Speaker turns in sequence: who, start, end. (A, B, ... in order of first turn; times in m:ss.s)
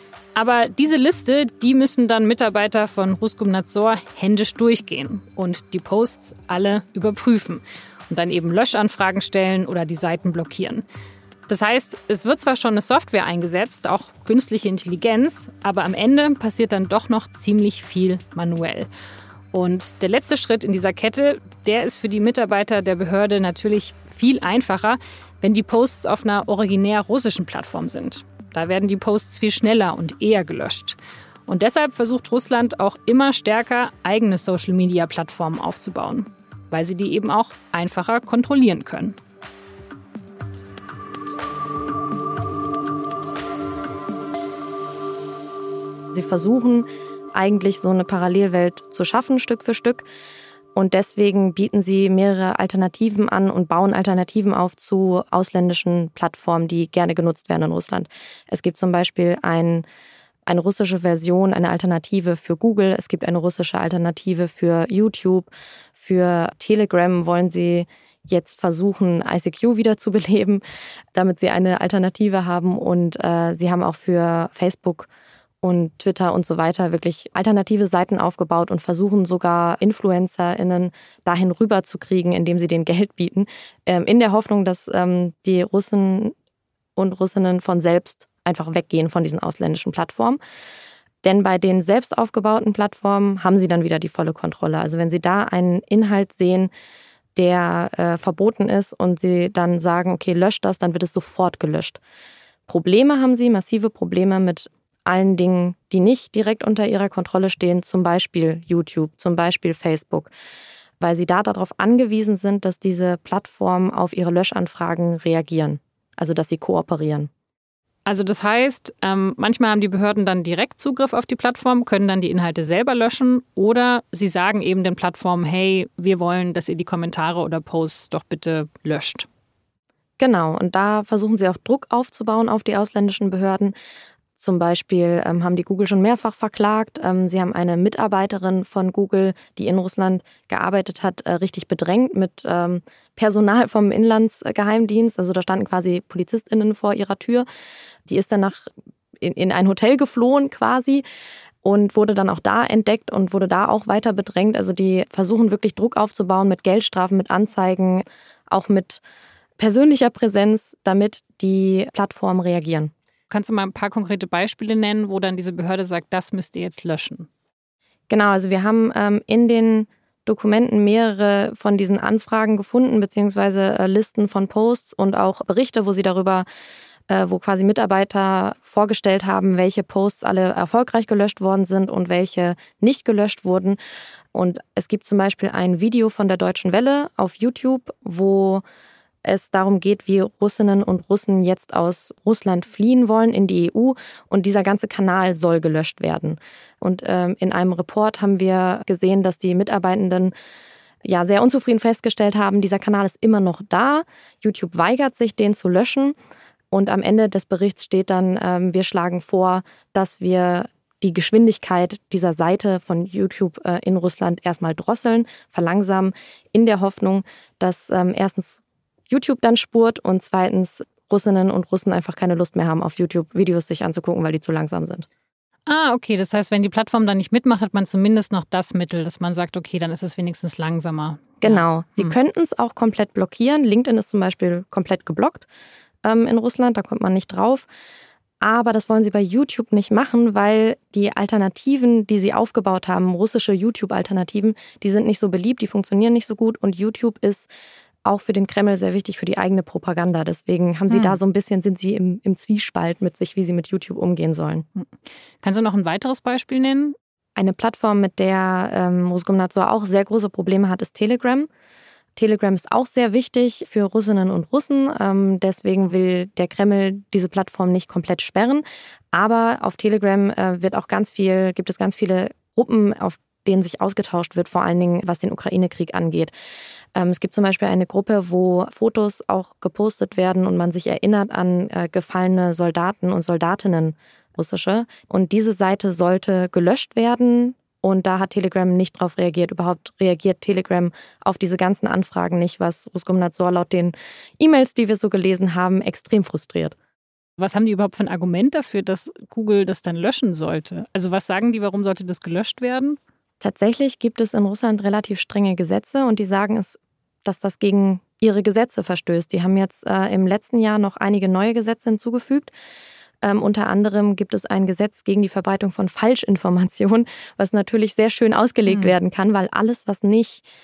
0:00.4-0:10.8 A
0:11.5-0:18.9 A
0:19.5-0:39.2 A
0:46.1-0:50.0 B
0:50.8-0:59.9 B
1:00.5-1:10.6 B
1:11.1-1:15.1 B
1:15.6-1:26.4 B
1:27.0-1:30.4 B
1:31.2-1:36.7 B
1:37.4-1:42.0 B
1:42.7-1:50.3 B
1:51.0-1:57.3 B
1:58.1-2:09.3 A
2:10.2-2:13.7 B
2:14.4-2:27.5 B
2:28.1-2:31.0 B
2:31.6-2:39.0 B
2:39.6-2:42.9 B
2:43.3-2:47.3 A
2:48.1-2:56.5 B
2:57.1-3:03.8 B
3:04.3-3:08.6 B
3:09.2-3:20.3 B
3:21.0-3:26.2 B
3:26.7-3:45.1 B
3:45.7-3:52.2 A
3:51.4-3:55.5 B
3:56.0-3:57.7 B
3:58.4-4:07.5 B
4:08.1-4:14.6 B
4:10.9-4:11.2 A
4:15.4-4:17.0 A
4:17.4-4:21.5 B
4:22.2-4:36.3 B
4:37.0-4:56.8 B
4:57.4-5:03.0 A
5:03.4-5:12.5 B
5:13.2-5:20.4 B
5:18.7-5:19.0 A